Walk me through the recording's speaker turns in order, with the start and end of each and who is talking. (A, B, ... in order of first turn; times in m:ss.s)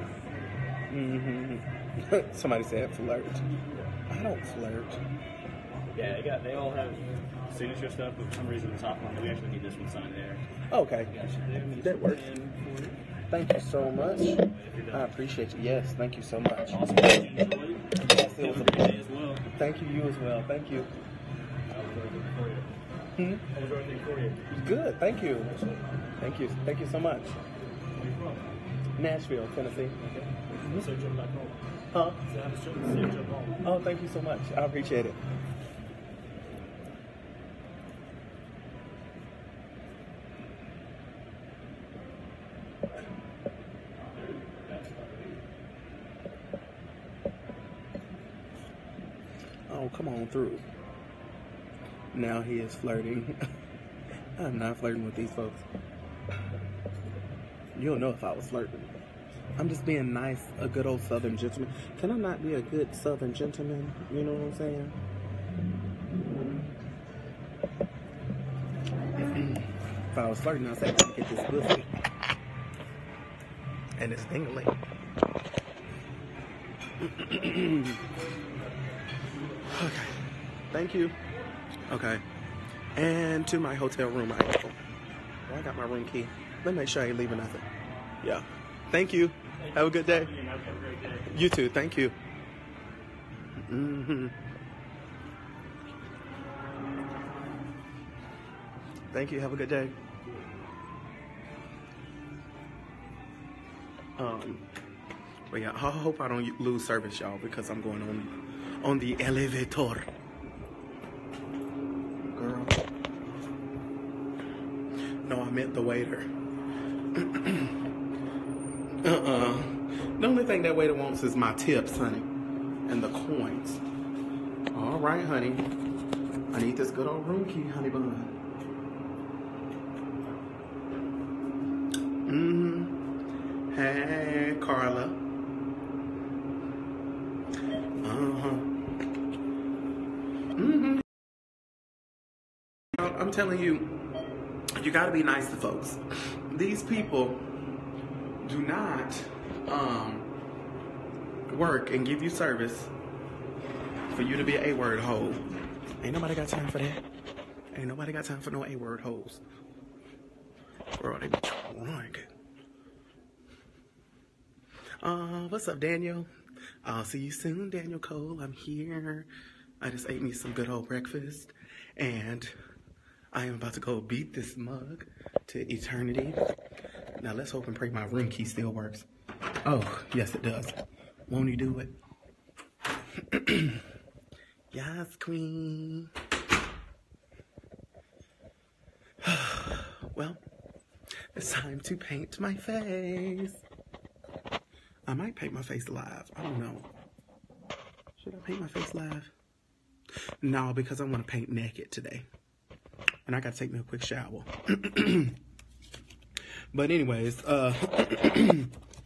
0:00.9-0:03.4 A
0:04.1-0:05.0 A
0:05.9-0:10.4 B
0:10.7-0:11.1 A
0:11.1-0:13.0 B
0:11.8-0:12.3 A
0:13.3-0:16.8 A
0:14.5-0:15.1 B
0:16.7-0:19.5 B
0:18.0-0:19.0 A
0:19.5-0:20.9 A
0:21.7-0:22.7 B
0:23.2-0:23.4 A
0:23.5-0:24.6 B
0:24.5-0:25.6 A
0:26.2-0:27.4 A
0:27.9-0:28.5 B
0:29.0-0:30.0 A
0:30.0-0:31.6 B
0:30.6-0:30.9 A
0:31.9-0:32.2 A
0:32.2-0:33.6 B
0:33.6-0:35.2 A
0:44.3-0:45.4 B
0:49.7-0:50.7 A
0:52.1-0:53.4 A
0:54.4-0:55.6 A
0:57.8-0:58.9 A
0:59.6-1:05.0 A
1:09.3-1:11.9 A
1:14.0-1:14.8 A
1:17.0-1:18.0 A
1:19.7-1:20.2 A
1:20.7-1:21.2 A
1:21.9-1:22.2 A
1:23.0-1:24.8 A
1:25.5-1:27.7 A
1:28.2-1:30.3 A
1:29.6-1:31.3 B
1:31.3-1:32.2 A
1:33.6-1:34.4 A
1:39.1-1:40.0 A
1:44.2-1:44.7 A
1:45.5-1:50.1 A
1:52.3-1:52.8 A
1:55.3-1:56.3 A
1:57.1-1:57.8 A
1:59.0-2:02.3 A
2:02.9-2:03.8 A
2:04.7-2:05.7 A
2:06.5-2:08.4 A
2:12.3-2:13.0 A
2:13.7-2:15.2 A
2:18.0-2:18.7 A
2:20.6-2:21.0 A
2:23.0-2:24.0 A
2:24.8-2:27.4 A
2:28.4-2:30.3 A
2:31.5-2:32.9 A
2:34.1-2:35.4 A
2:36.0-2:37.0 A
2:37.7-2:39.4 A
2:41.0-2:42.3 A
2:45.0-2:46.3 A
2:46.8-2:49.3 A
2:49.8-2:52.5 A
2:53.3-2:56.4 A
2:57.2-2:59.1 A
2:59.6-3:00.8 A
3:01.3-3:02.0 A
3:03.2-3:03.8 A
3:04.7-3:06.1 A
3:09.2-3:10.4 A
3:11.4-3:13.6 A
3:15.1-3:16.8 A
3:18.2-3:19.3 A
3:20.4-3:22.2 A
3:23.3-3:25.4 A
3:26.7-3:28.7 A